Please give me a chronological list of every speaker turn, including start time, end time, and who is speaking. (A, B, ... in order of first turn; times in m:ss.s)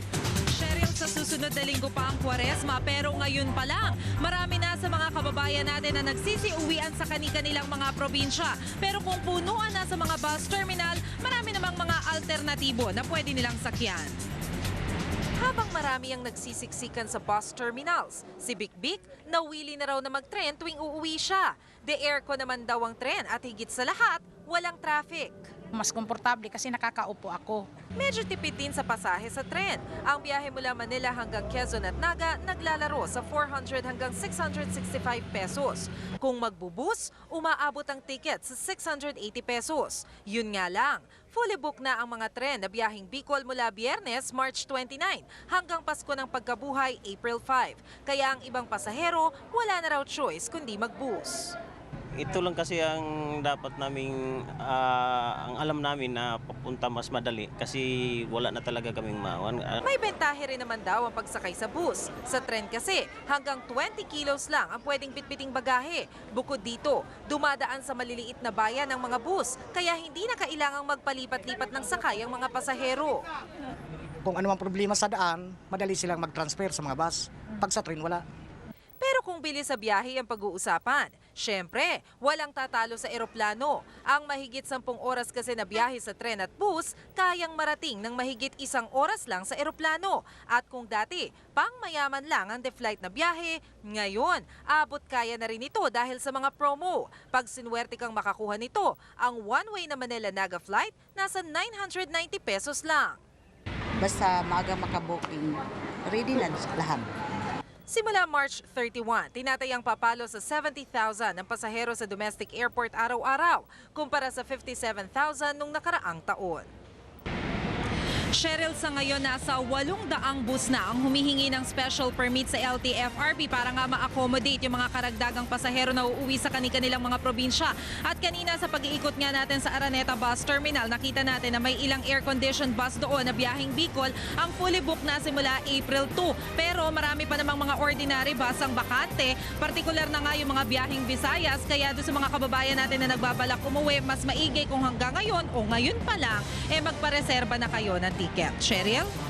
0:00.5-0:14.2 A
0:15.4-0:25.5 A
0:25.7-0:27.7 B
0:28.0-0:51.5 A
0:52.2-0:59.7 C
0:59.8-1:13.2 A
1:14.2-1:18.2 D
1:19.0-1:43.2 A
1:44.0-1:47.1 E
1:47.9-1:56.7 A
1:58.3-2:29.1 A